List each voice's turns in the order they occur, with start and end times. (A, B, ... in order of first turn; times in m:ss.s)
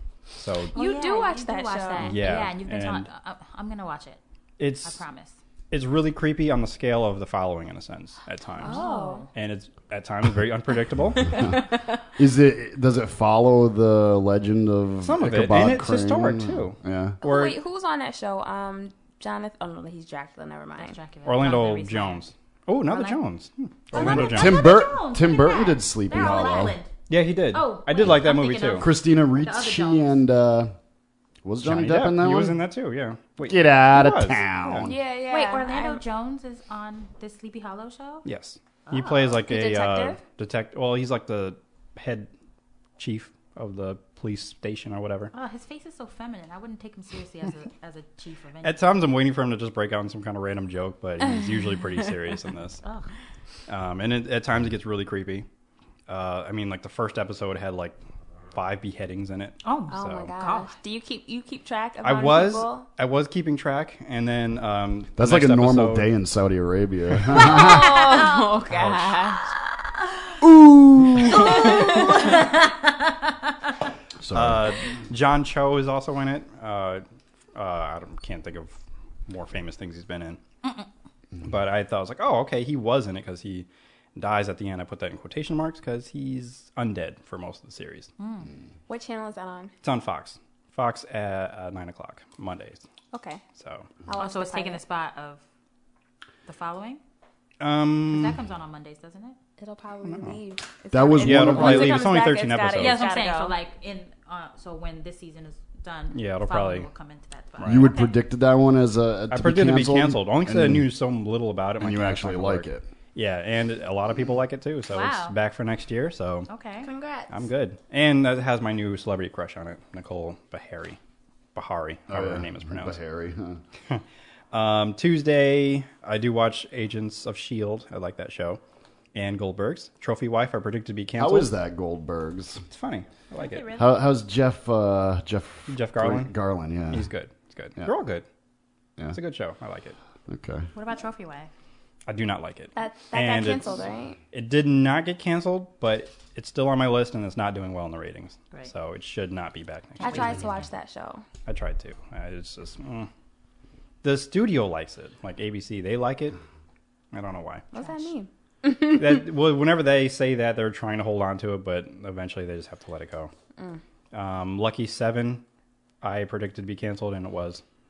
0:00.4-0:00.7 A
0:00.8-0:02.2 B
0:00.8-0:04.2 C
0:02.0-0:03.1 A
0:04.6-0:05.0 A
0:04.8-0:05.4 C
0:05.7-0:08.8 A
0:08.6-0:09.3 B
0:08.6-0:09.3 C
0:09.3-0:11.4 A
0:12.2-0:17.2 D
0:15.0-0:17.6 A
0:17.2-0:21.0 B
0:20.8-0:22.3 C
0:21.2-0:24.6 A
0:22.9-0:23.2 C
0:23.9-0:26.8 D
0:23.9-0:26.9 C
0:27.1-0:28.9 A
0:27.5-0:30.2 C
0:28.8-0:30.7 D
0:31.4-0:32.6 D
0:31.6-0:34.9 A
0:33.4-0:35.0 D
0:34.8-0:36.0 B
0:35.3-0:38.2 C
0:38.2-0:42.3 A
0:38.9-0:39.4 C
0:39.4-0:40.2 B
0:43.0-0:45.3 A
0:45.3-0:49.0 C
0:48.6-0:52.8 A
0:52.8-0:53.1 C
0:53.7-0:55.5 A
0:56.1-0:58.0 A
0:58.5-1:00.3 A
0:59.6-1:00.7 C
0:59.9-1:02.8 B
1:02.0-1:06.1 A
1:05.2-1:07.9 D
1:07.4-1:09.4 B
1:08.7-1:09.3 A
1:10.4-1:11.8 D
1:11.2-1:12.3 B
1:11.3-1:12.6 C
1:14.2-1:14.7 D
1:14.3-1:17.0 A
1:17.6-1:20.4 A
1:21.4-1:28.1 A
1:28.2-1:28.5 C
1:28.9-1:29.7 B
1:29.8-1:32.8 A
1:33.1-1:33.4 B
1:33.6-1:33.9 A
1:34.1-1:34.8 B
1:34.2-1:35.4 C
1:36.5-1:37.0 C
1:37.6-1:38.4 A
1:38.1-1:39.4 C
1:39.6-1:43.6 B
1:40.0-1:40.4 A
1:40.9-1:42.2 D
1:41.2-1:43.1 A
1:42.8-1:48.2 C
1:46.1-1:46.9 A
1:47.6-1:47.9 A
1:47.6-1:50.9 D
1:49.3-1:56.5 A
1:51.8-1:52.9 D
1:54.9-1:55.3 C
1:56.5-1:56.9 C
1:56.8-1:57.3 B
1:57.3-2:01.0 A
2:01.6-2:03.0 A
2:02.1-2:03.6 D
2:03.9-2:08.6 A
2:09.1-2:11.5 A
2:11.2-2:12.6 D
2:12.7-2:13.7 A
2:13.3-2:14.0 C
2:13.8-2:17.1 D
2:15.7-2:16.3 A
2:16.9-2:18.2 A
2:19.1-2:20.0 A
2:20.3-2:20.7 D
2:20.8-2:21.5 C
2:22.1-2:23.6 A
2:22.8-2:24.2 B
2:24.3-2:30.4 A
2:30.0-2:30.4 C
2:30.0-2:31.2 B
2:31.5-2:33.1 A
2:34.0-2:36.4 A
2:37.1-2:37.6 A
2:37.7-2:39.0 B
2:37.7-2:38.1 C
2:38.8-2:43.3 A
2:44.1-2:45.4 A
2:46.0-2:47.6 A